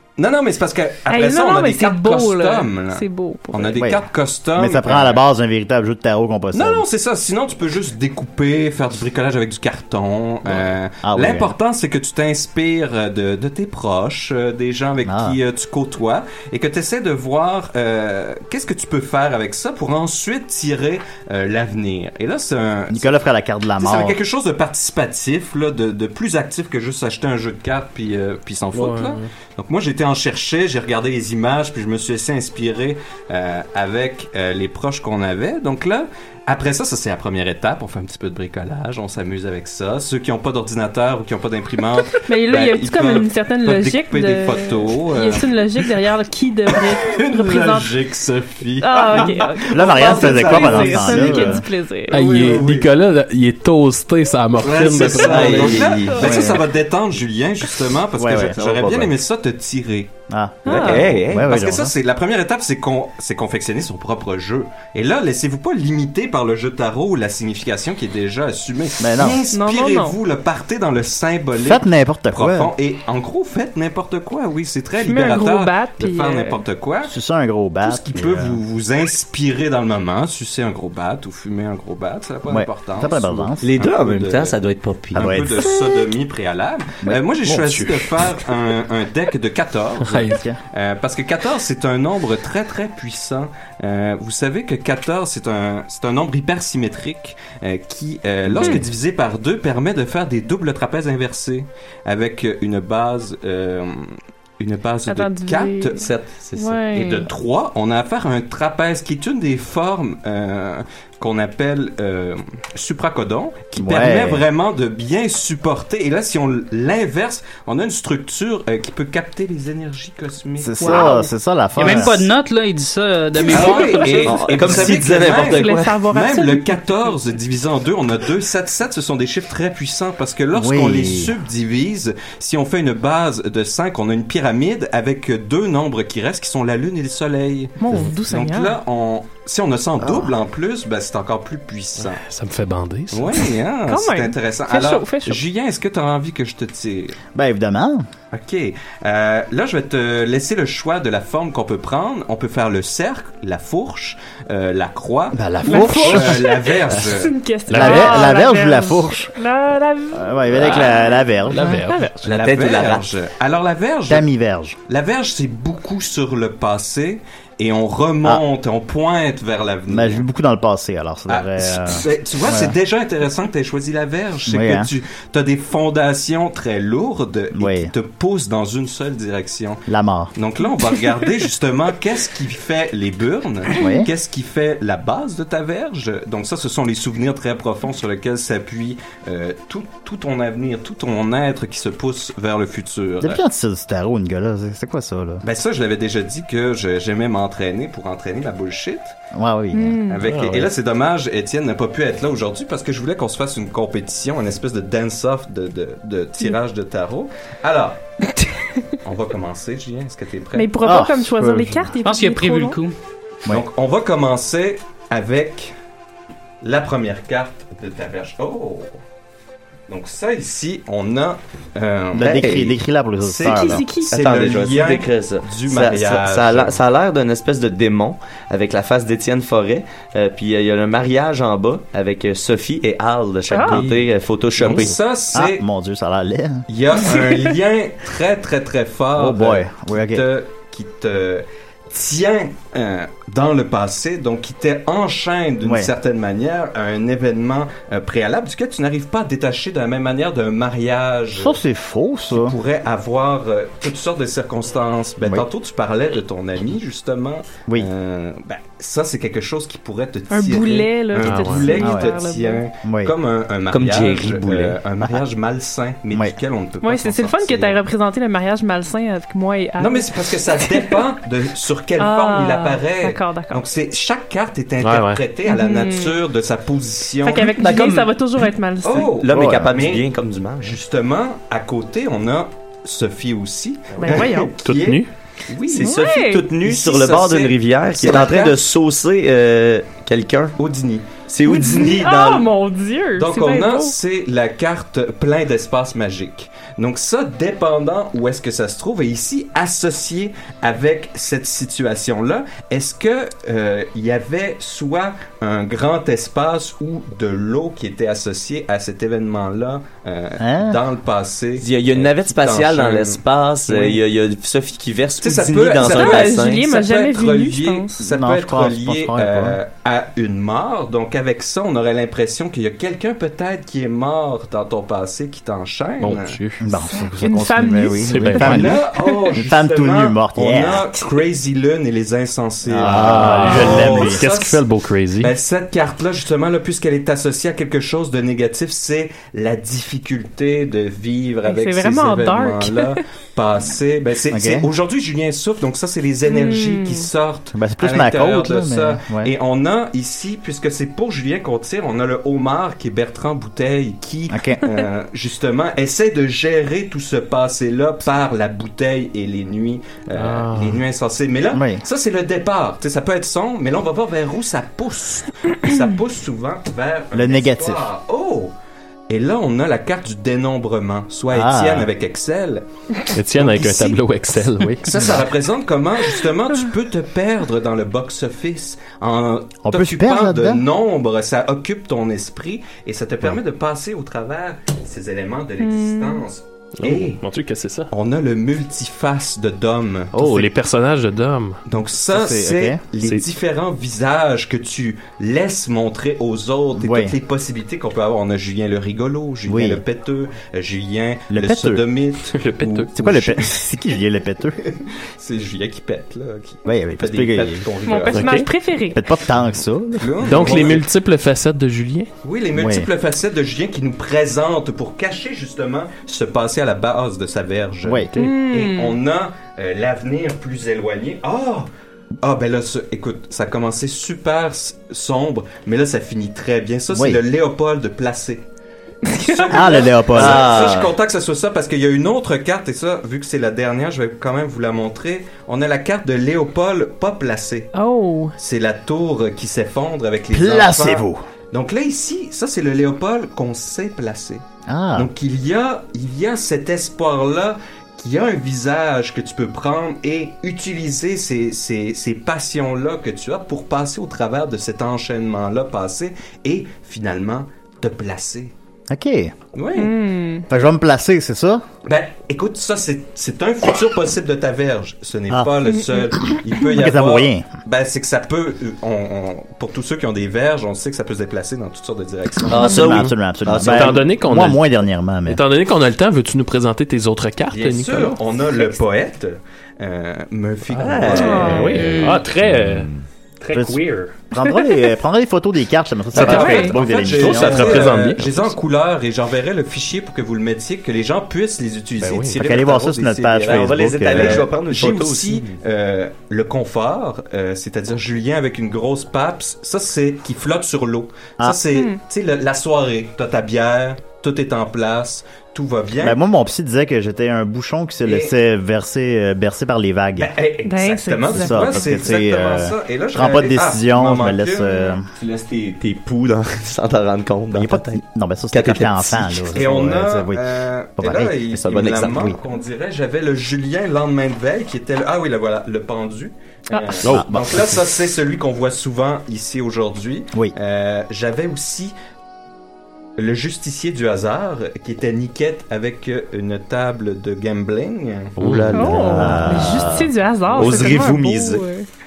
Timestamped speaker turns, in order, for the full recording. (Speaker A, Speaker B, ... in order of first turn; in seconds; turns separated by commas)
Speaker A: 0.2-5.2, Speaker B: 1.1-3.8, Speaker C: 3.8-4.0, Speaker C: 4.5-6.8, Speaker A: 6.5-23.2, Speaker C: 11.0-11.5, Speaker C: 15.0-15.4, Speaker C: 22.9-24.2, Speaker A: 23.8-45.9, Speaker D: 28.7-29.3, Speaker B: 42.2-47.9, Speaker A: 46.7-52.9, Speaker B: 48.8-52.2, Speaker C: 49.7-51.6, Speaker D: 52.1-55.8, Speaker A: 54.6-60.1, Speaker E: 55.2-56.4, Speaker B: 56.1-56.6, Speaker C: 56.2-56.6, Speaker C: 58.2-59.0, Speaker E: 58.6-59.0, Speaker C: 60.3-61.9, Speaker B: 60.6-61.1, Speaker E: 60.6-61.5, Speaker A: 60.8-77.1, Speaker C: 69.0-69.4, Speaker B: 69.5-70.2, Speaker C: 71.6-72.7, Speaker B: 75.0-76.6, Speaker C: 77.0-78.6, Speaker A: 77.8-84.6, Speaker C: 82.5-83.7, Speaker E: 83.6-85.4, Speaker C: 85.1-85.7, Speaker A: 85.1-121.1, Speaker B: 85.6-86.1, Speaker C: 87.0-88.0, Speaker D: 90.0-90.4, Speaker C: 90.3-90.6, Speaker B: 98.6-98.8, Speaker B: 105.1-107.3, Speaker C: 113.8-114.4, Speaker C: 120.6-122.3, Speaker B: 120.8-121.3, Speaker F: 121.8-124.2, Speaker B: 123.4-124.5, Speaker A: 123.4-142.2, Speaker E: 124.1-126.0, Speaker B: 125.3-127.1, Speaker C: 130.5-131.3, Speaker B: 137.8-138.8, Speaker C: 140.0-140.3, Speaker D: 142.1-143.3, Speaker A: 143.1-147.2, Speaker B: 143.9-145.4, Speaker C: 147.3-148.1, Speaker A: 148.3-157.4, Speaker C: 155.3-156.6, Speaker B: 155.7-161.2, Speaker D: 157.7-158.3, Speaker C: 157.7-159.3, Speaker C: 160.1-161.8, Speaker D: 160.5-162.3, Speaker B: 161.8-162.2, Speaker A: 162.2-164.3, Speaker E: 162.3-163.1, Speaker C: 164.1-164.8, Speaker A: 164.9-170.2, Speaker C: 169.9-172.7, Speaker A: 171.3-179.8, Speaker C: 174.5-174.9, Speaker C: 177.5-177.9, Speaker C: 179.9-180.3, Speaker A: 180.3-193.4, Speaker C: 183.8-184.1, Speaker C: 193.2-195.4, Speaker A: 195.4-199.2, Speaker C: 199.3-200.0, Speaker B: 199.7-200.2, Speaker A: 200.1-208.0, Speaker D: 200.2-200.7, Speaker A: 209.0-210.8, Speaker B: 210.5-212.8, Speaker C: 210.8-211.9, Speaker F: 212.0-212.9, Speaker A: 213.5-215.7, Speaker A: 216.6-218.9, Speaker A: 219.9-226.8, Speaker C: 222.1-223.8, Speaker E: 222.2-222.7, Speaker B: 223.4-224.1, Speaker E: 224.1-235.0, Speaker B: 233.5-233.8, Speaker A: 233.6-234.1, Speaker A: 234.6-235.6, Speaker C: 235.3-236.6, Speaker A: 236.7-251.6, Speaker C: 239.2-240.2, Speaker C: 245.6-245.9, Speaker C: 251.4-252.5, Speaker A: 252.3-267.8, Speaker C: 255.2-255.4, Speaker B: 260.3-262.6, Speaker D: 261.1-261.7, Speaker C: 261.8-262.1, Speaker C: 262.8-263.1, Speaker E: 263.7-264.8, Speaker B: 266.8-271.0, Speaker A: 269.8-278.0, Speaker B: 272.0-273.6, Speaker D: 274.8-275.2, Speaker B: 275.4-276.2, Speaker B: 277.2-279.1, Speaker E: 277.5-278.1, Speaker A: 278.8-280.1, Speaker E: 278.9-280.8, Speaker C: 279.3-279.7, Speaker A: 280.6-286.0, Speaker E: 283.9-284.3, Speaker B: 284.0-284.5, Speaker D: 284.6-285.1, Speaker E: 285.7-290.5, Speaker B: 285.7-286.5, Speaker A: 286.6-288.6, Speaker A: 290.6-291.2, Speaker E: 291.3-292.5, Speaker B: 291.4-293.9, Speaker A: 293.2-314.0, Speaker C: 310.4-310.8, Speaker E: 311.6-316.7, Speaker A: 315.2-326.4, Speaker B: 315.8-318.0, Speaker C: 318.0-319.6, Speaker D: 326.0-326.6, Speaker C: 326.6-330.8, Speaker B: 326.9-328.4, Speaker D: 328.0-328.8, Speaker A: 328.4-334.7, Speaker C: 332.6-334.2, Speaker D: 332.8-335.3, Speaker A: 335.2-368.5, Speaker B: 341.4-343.0, Speaker C: 344.3-344.7, Speaker B: 346.2-347.1, Speaker C: 347.5-349.3, Speaker C: 354.3-354.6, Speaker D: 360.1-360.8, Speaker C: 361.5-361.8, Speaker C: 367.1-367.9, Speaker A: 369.1-372.6, Speaker C: 371.3-371.9, Speaker D: 373.1-375.1, Speaker A: 373.3-374.0, Speaker A: 374.8-387.2, Speaker C: 379.6-380.6, Speaker B: 385.6-386.2, Speaker D: 386.8-387.9, Speaker A: 387.9-390.4, Speaker D: 390.1-391.6, Speaker A: 391.7-403.5, Speaker C: 392.1-392.8, Speaker C: 396.7-397.1, Speaker C: 399.5-399.8, Speaker C: 401.3-401.8, Speaker D: 402.3-402.9, Speaker C: 402.9-404.6, Speaker A: 405.2-408.4, Speaker C: 406.6-407.7, Speaker B: 407.8-409.1, Speaker D: 408.1-408.5, Speaker C: 408.9-410.8, Speaker A: 410.0-410.9, Speaker D: 410.2-412.1, Speaker A: 412.2-421.7, Speaker C: 412.5-412.9, Speaker C: 417.8-418.1, Speaker B: 418.1-419.0, Speaker A: 422.2-428.4, Speaker C: 426.9-427.2, Speaker B: 429.1-429.9, Speaker A: 429.2-437.7, Speaker C: 429.5-430.5, Speaker E: 430.1-431.0, Speaker B: 437.7-438.3, Speaker A: 438.4-444.4, Speaker C: 440.3-441.2, Speaker C: 444.7-445.1, Speaker A: 444.9-458.5, Speaker C: 458.9-459.3, Speaker A: 459.5-459.9, Speaker B: 459.7-460.4, Speaker C: 460.5-461.6, Speaker A: 461.8-472.8, Speaker B: 465.6-466.4, Speaker C: 466.7-467.5, Speaker E: 472.5-474.0, Speaker C: 472.7-475.4, Speaker D: 473.7-474.7, Speaker D: 475.3-478.2, Speaker A: 477.5-481.7, Speaker E: 480.7-481.9, Speaker D: 480.9-482.9, Speaker B: 481.1-481.9, Speaker F: 481.8-482.2, Speaker E: 482.5-482.9, Speaker D: 483.4-484.5, Speaker C: 483.5-487.9, Speaker D: 486.1-488.5, Speaker A: 486.1-506.2, Speaker B: 486.2-486.8, Speaker D: 492.0-492.4, Speaker C: 492.3-494.4, Speaker E: 493.5-495.5, Speaker B: 501.7-502.0, Speaker C: 506.0-510.3, Speaker A: 508.0-508.3, Speaker A: 510.1-514.8, Speaker B: 510.6-512.0, Speaker C: 511.3-515.1, Speaker E: 515.2-519.5, Speaker C: 517.5-520.4, Speaker A: 519.5-531.9, Speaker C: 521.0-521.3, Speaker E: 521.5-522.3, Speaker C: 522.1-522.4, Speaker B: 526.7-527.0, Speaker D: 527.0-527.8, Speaker C: 527.1-527.5, Speaker A: 533.2-538.4, Speaker D: 538.4-538.8, Speaker E: 538.4-540.0, Speaker B: 538.7-541.9, Speaker C: 538.9-540.1, Speaker E: 540.5-541.6